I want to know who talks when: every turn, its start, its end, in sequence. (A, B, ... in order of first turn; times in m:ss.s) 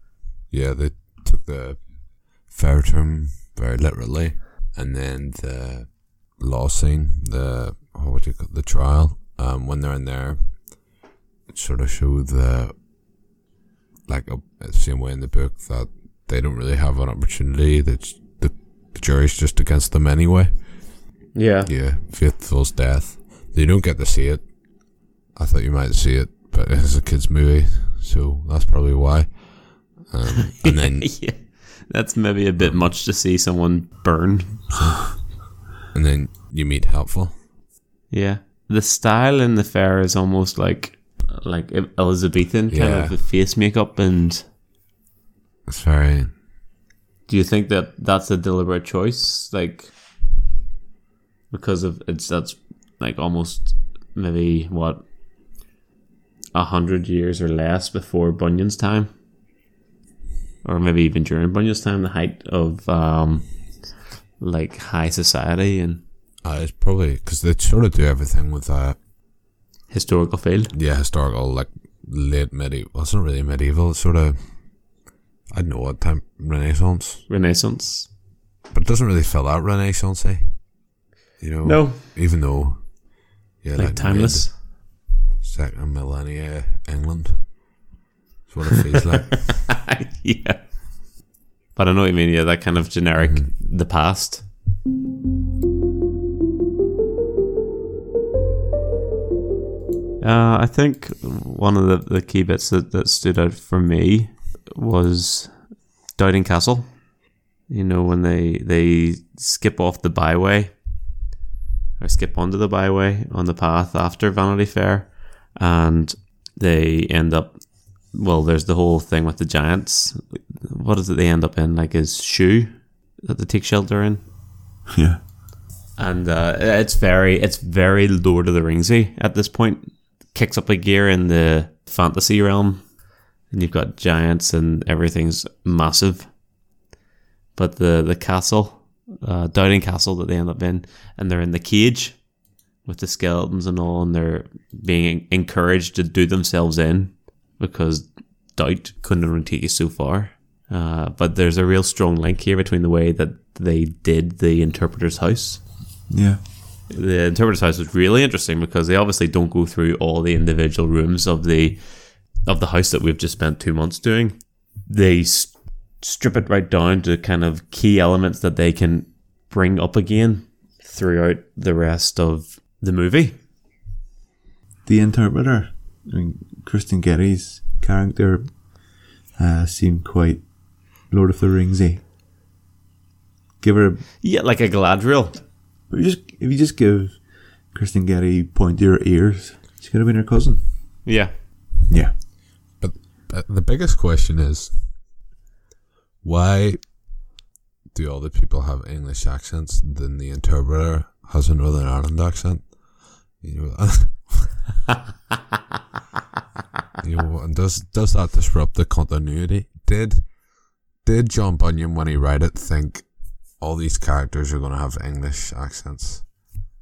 0:00.5-0:10.8 A
0:11.5-0:12.8 A
0:14.1-0:21.0 A
0:21.3-0:21.7 B
0:21.6-0:31.2 A
0:30.6-0:34.7 B
0:32.6-0:32.8 A
0:34.7-0:37.4 A
0:38.1-0:44.4 B
0:42.7-0:43.1 A
0:45.7-0:46.3 A
0:47.3-0:49.9 B
0:51.5-0:55.0 B
0:56.5-0:59.1 B
1:00.6-1:03.5 B
1:04.4-1:06.0 B
1:06.4-1:09.0 A
1:09.9-1:10.7 B
1:10.7-1:14.5 A
1:15.5-1:17.2 A
1:17.3-1:18.1 B
1:18.7-1:20.5 A
1:21.4-1:23.0 A
1:21.6-1:22.0 B
1:23.6-1:24.7 A
1:23.8-1:24.5 B
1:25.4-1:27.6 A
1:28.5-1:29.6 A
1:29.2-1:30.7 B
1:31.8-1:34.4 B
1:33.2-1:33.5 A
1:40.2-1:45.6 B
1:46.1-1:47.0 B
1:47.7-1:50.7 B
1:52.0-2:04.2 B
2:04.9-2:05.2 C
2:06.0-2:12.9 B
2:13.5-2:16.3 B
2:17.6-2:22.2 B
2:22.8-2:35.6 B
2:36.1-2:36.4 C
2:36.9-2:41.9 B
2:42.4-2:53.4 B
2:54.9-2:58.7 C
2:59.4-3:00.5 C
3:01.1-3:02.0 C
3:03.6-3:04.1 C
3:04.2-3:05.4 B
3:05.9-3:07.2 C
3:07.7-3:10.6 C
3:11.0-3:11.3 B
3:12.8-3:14.8 A
3:16.2-3:16.9 A
3:17.9-3:24.6 A
3:27.0-3:30.4 A
3:31.0-3:36.4 A